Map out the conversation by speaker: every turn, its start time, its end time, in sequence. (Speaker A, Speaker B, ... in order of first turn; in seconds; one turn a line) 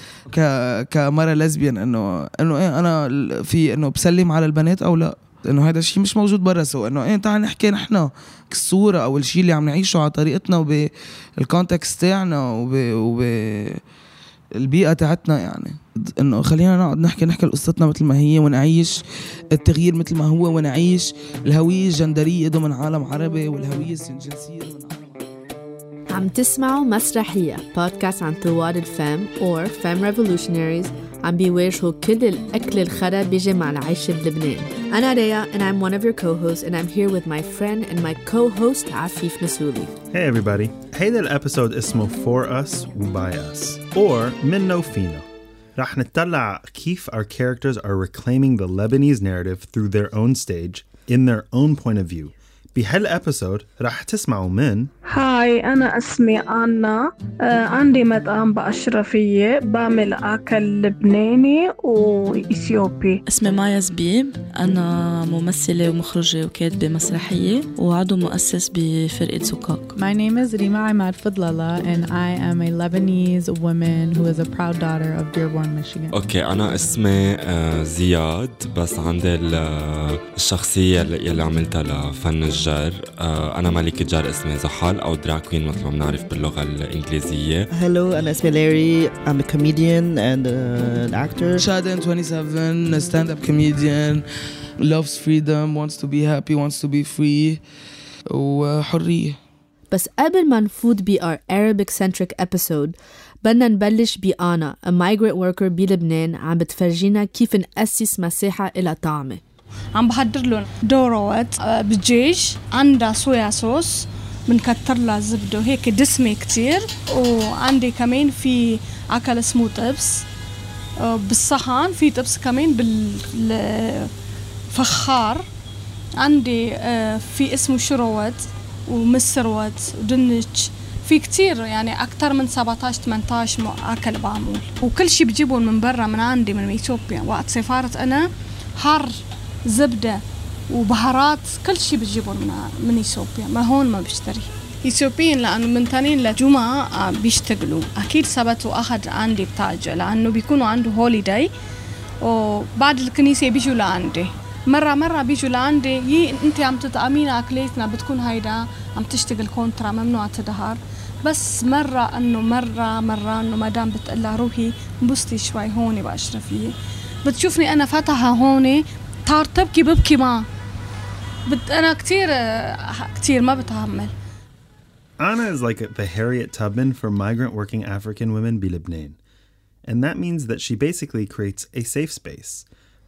Speaker A: 0.3-13.8
Speaker A: 14.6-19.0
Speaker A: 19.5-25.2
Speaker B: 26.1-39.9
Speaker C: 40.1-45.2
Speaker C: 45.8-54.9
Speaker D: 55.1-63.2
Speaker E: 63.3-69.9
Speaker F: 70.0-76.1
Speaker G: 76.1-87.7
Speaker H: 87.7-91.6
Speaker A: 91.6-94.2
Speaker A: 94.8-97.6
Speaker A: 98.3-99.4
Speaker B: 99.9-109.4
Speaker I: 109.9-120.2
Speaker I: 121.0-124.1
Speaker I: 124.7-125.5
Speaker I: 126.2-139.1
Speaker I: 139.7-151.5
Speaker I: 152.2-170.5
Speaker I: 171.5-174.1
Speaker C: 175.2-179.2
Speaker C: 179.8-182.7